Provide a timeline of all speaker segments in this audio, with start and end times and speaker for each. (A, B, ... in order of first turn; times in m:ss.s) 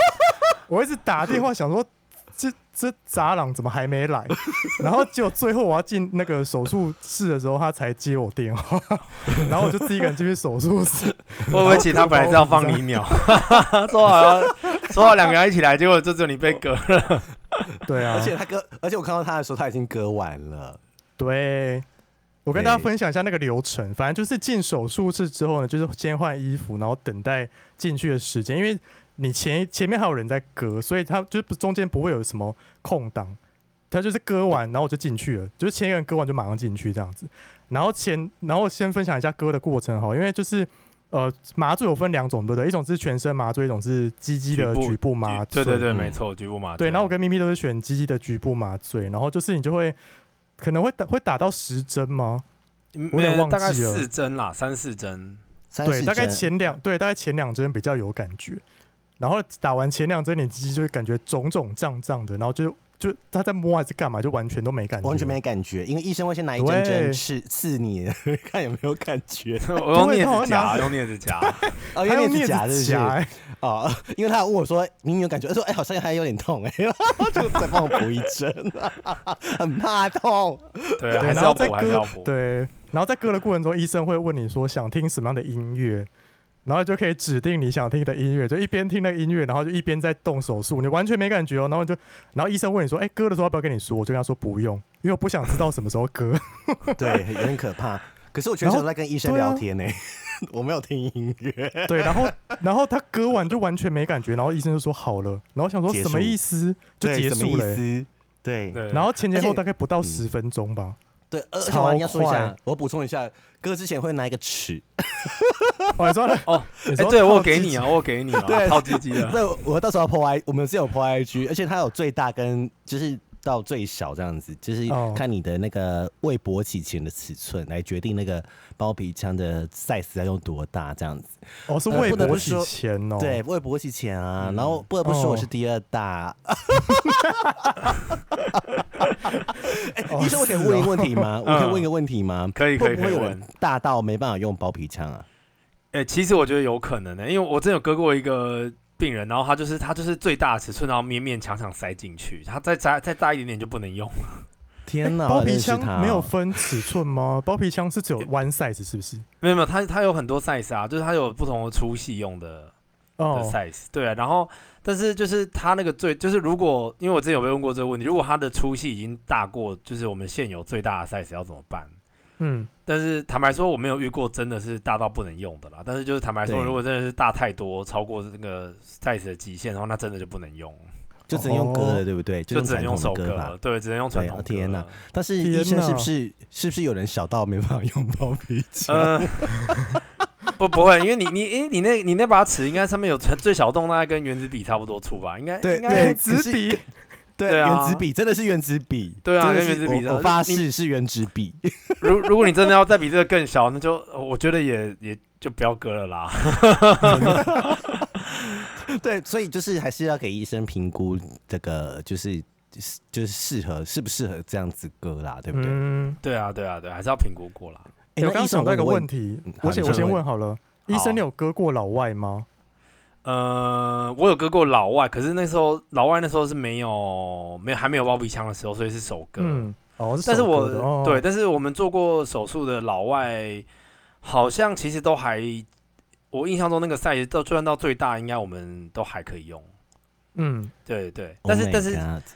0:00.7-0:12.9 A
0:11.5-0:17.7 B
0:11.5-0:11.9 C
0:17.8-0:18.3 A
0:18.1-0:20.8 C
0:21.2-0:21.8 A
0:22.4-0:33.4 A
0:22.5-0:22.9 C
0:33.9-0:45.9 A
0:44.5-0:47.1 B
0:45.9-0:46.2 C
0:46.8-0:50.0 A
0:50.6-0:52.4 A
0:52.9-0:55.4 B
0:53.1-0:54.1 A
0:55.7-0:56.5 C
0:55.8-0:58.6 A
0:59.2-1:05.4 A
1:05.0-1:09.8 C
1:06.6-1:07.2 A
1:09.6-1:11.7 B
1:09.9-1:13.3 A
1:11.9-1:22.0 C
1:21.0-1:22.3 B
1:21.2-1:26.1 A
1:26.6-1:37.2 A
1:37.0-1:42.4 C
1:38.6-1:39.6 A
1:41.9-1:47.8 A
1:45.9-1:46.4 C
1:47.0-1:50.2 C
1:48.7-1:49.1 B
1:48.9-1:51.0 A
1:51.3-1:56.4 C
1:51.6-1:52.5 A
1:56.0-1:58.0 A
1:56.5-1:59.4 B
1:58.4-2:11.3 C
2:04.9-2:05.2 A
2:11.7-2:13.4 A
2:11.9-2:18.0 C
2:11.9-2:12.5 B
2:14.4-2:14.8 B
2:15.0-2:15.5 A
2:18.5-2:25.3 C
2:20.1-2:21.2 A
2:21.4-2:21.9 B
2:22.5-2:23.4 B
2:25.9-2:34.4 B
2:34.9-2:36.7 C
2:35.2-2:39.2 A
2:39.4-2:42.7 B
2:43.2-2:43.6 A
2:43.3-2:51.9 B
2:52.4-2:52.7 A
2:52.9-3:00.8 B
2:56.4-2:56.8 C
3:01.3-3:03.5 C
3:01.3-3:02.0 A
3:02.5-3:05.0 B
3:04.1-3:10.0 C
3:05.4-3:06.1 A
3:08.9-3:09.7 B
3:10.5-3:16.2 B
3:15.6-3:16.8 C
3:15.8-3:16.8 A
3:17.4-3:22.4 C
3:17.5-3:18.0 B
3:19.2-3:20.6 B
3:22.0-3:28.0 B
3:27.0-3:35.8 C
3:35.5-3:36.2 A
3:36.2-3:37.9 B
3:38.2-3:40.2 C
3:38.2-3:42.5 A
3:39.8-3:40.2 B
3:40.9-3:41.2 B
3:43.2-3:49.7 B
3:49.4-3:51.2 A
3:50.2-3:53.6 B
3:54.2-3:55.6 B
3:56.3-3:59.7 B
4:00.4-4:00.7 A
4:00.8-4:02.0 B
4:01.4-4:02.2 C